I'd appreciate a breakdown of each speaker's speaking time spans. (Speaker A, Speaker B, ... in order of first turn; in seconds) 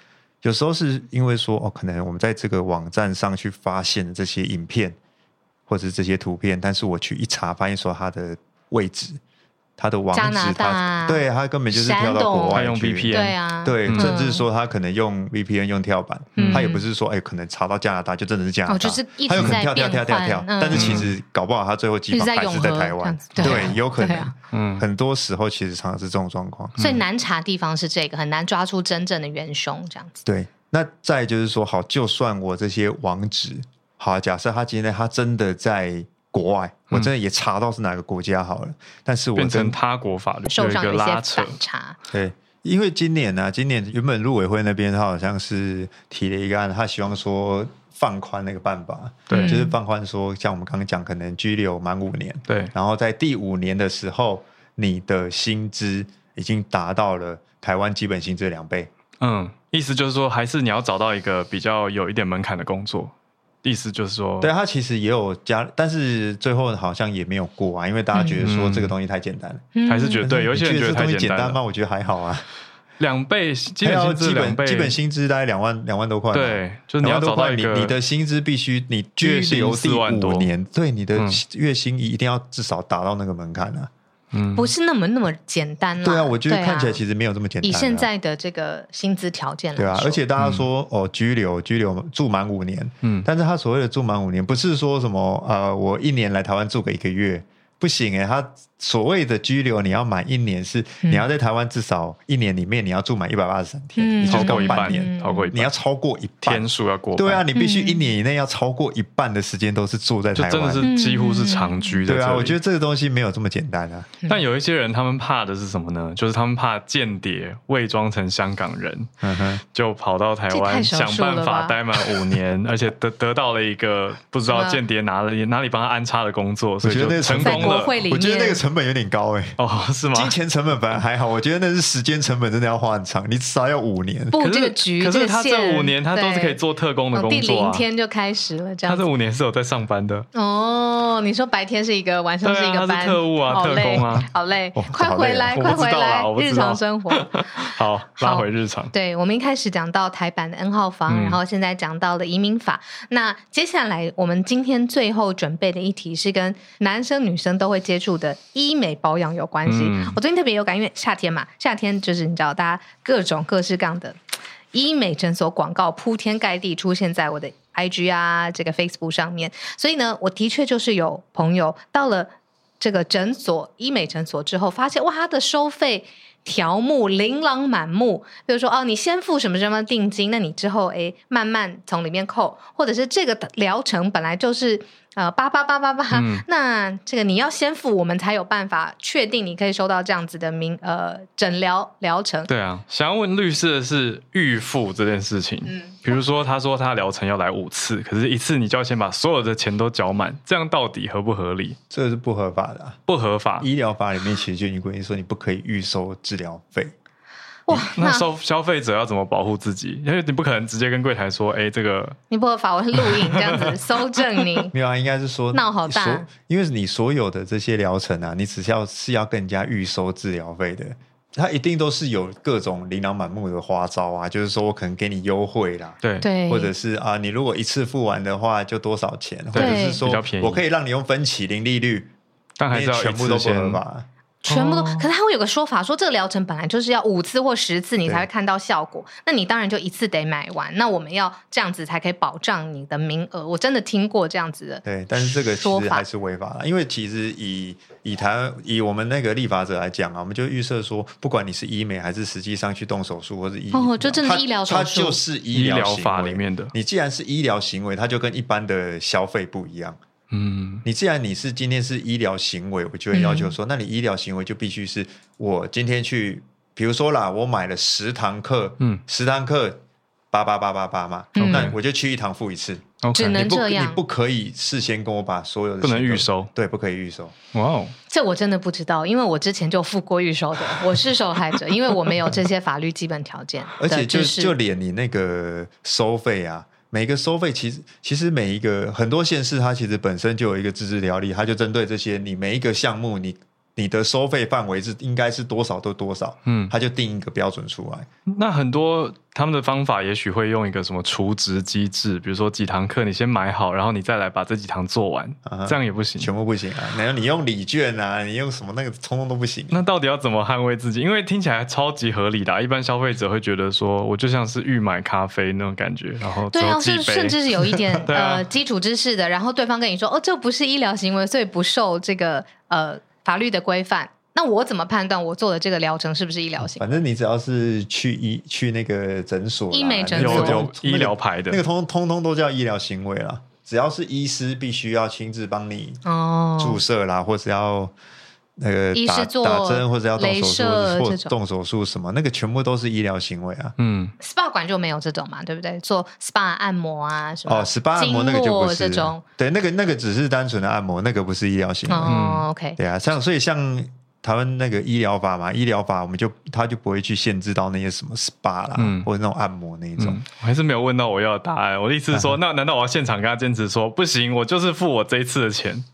Speaker A: 0.4-5.0, 5.7-9.2, 9.8-26.8, 30.2-39.8, 42.1-58.9, 64.4-72.5, 73.8-83.9, 86.0-88.1, 89.8-110.9, 112.1-114.1, 119.2-119.6, 126.8-129.6, 130.1-134.3, 144.8-145.7, 201.9-203.0, 203.6-206.9, 214.7-232.1, 232.7-234.1, 244.8-260.0, 260.9-269.8, 270.3-277.4, 283.8-298.1, 305.5-309.8, 326.6-336.0, 336.6-337.9, 338.6-343.7, 347.5-352.2, 352.8-360.2, 362.1-362.4
Speaker B: 10.1-14.4, 16.4-16.8, 18.7-21.1, 22.1-24.3, 26.8-30.2, 40.5-42.0, 49.3-49.7, 69.8-70.3, 84.5-87.0, 87.6-90.2, 104.0-105.5, 107.5-108.1, 110.8-112.0, 120.5-122.3, 124.5-124.8, 127.4-128.6, 134.3-136.6, 137.1-139.1, 140.3-147.6, 148.2-164.2, 164.7-192.5, 195.7-196.0, 207.7-208.3, 212.3-214.7, 215.5-216.3, 226.2-226.7, 229.6-230.0, 234.4-246.1, 253.7-255.2, 263.1-263.5, 271.4-271.7, 273.1-274.0, 278.1-284.6, 316.5-326.9, 329.7-330.7, 336.1-336.8, 338.9-341.3, 344.2-349.2, 351.9-352.8
Speaker C: 12.5-14.1, 16.4-16.7, 20.7-21.1, 23.4-23.7, 24.5-24.9, 26.8-27.0, 39.4-41.5, 49.3-49.6, 52.5-52.7, 59.2-63.1, 63.6-64.5, 68.4-68.9, 69.9-71.6, 73.0-75.0, 76.3-78.0, 79.2-80.5, 81.2-81.4, 84.3-84.7, 90.4-90.7, 104.3-105.7, 106.4-107.4, 110.3-112.6, 114.3-119.1, 119.7-128.0, 129.6-130.4, 134.4-137.9, 138.9-140.3, 142.4-144.3, 145.5-148.9, 151.1-151.4, 159.7-160.2, 186.1-186.4, 192.5-201.8, 203.1-203.7, 207.7-212.2, 213.0-213.8, 229.5-230.6, 232.6-233.8, 234.5-235.1, 255.5-256.7, 260.3-260.8, 271.4-271.8, 273.0-273.5, 275.8-276.5, 277.5-277.9, 296.5-296.7, 298.3-306.3, 309.7-317.4, 318.1-318.5, 330.2-331.6, 343.8-344.1, 352.1-352.4, 358.8-359.1, 360.0-365.9